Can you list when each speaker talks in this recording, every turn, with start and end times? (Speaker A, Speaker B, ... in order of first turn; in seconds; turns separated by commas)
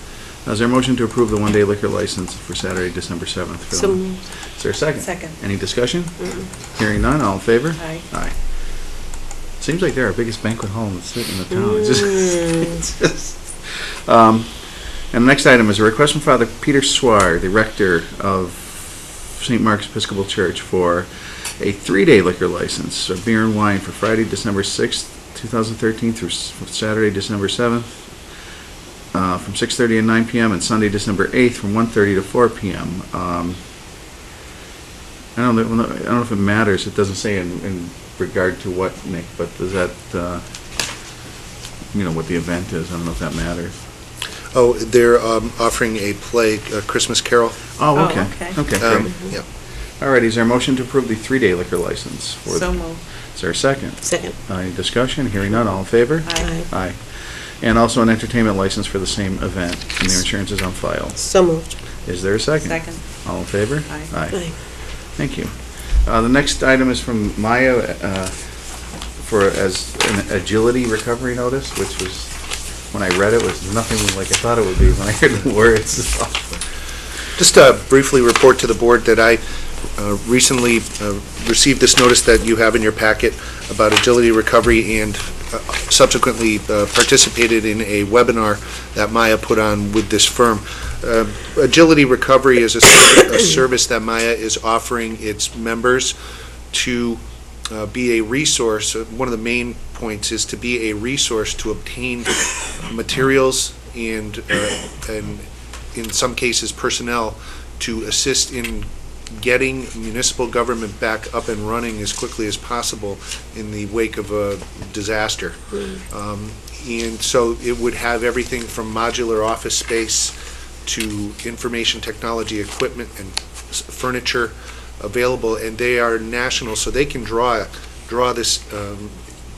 Speaker A: 0.5-8.4, Speaker B: 3.7-4.2, Speaker C: 5.0-5.4, Speaker C: 7.8-8.1, Speaker A: 9.6-14.6, Speaker B: 12.1-12.7, Speaker A: 15.1-28.1, Speaker A: 29.1-33.6, Speaker A: 35.4-40.5, Speaker A: 41.9-43.8, Speaker D: 44.5-47.6, Speaker A: 47.8-49.4, Speaker C: 48.0-48.6, Speaker D: 48.8-49.4, Speaker A: 50.0-52.8, Speaker C: 52.5-53.0, Speaker A: 53.3-61.2, Speaker B: 54.0-54.4, Speaker C: 56.2-56.6, Speaker B: 56.4-56.7, Speaker B: 61.2-61.8, Speaker A: 62.0-64.4, Speaker C: 62.6-63.2, Speaker C: 63.9-64.1, Speaker A: 65.2-68.5, Speaker A: 69.2-76.6, Speaker D: 77.4-79.4, Speaker D: 80.0-96.2, Speaker D: 96.7-120.3, Speaker D: 120.9-129.2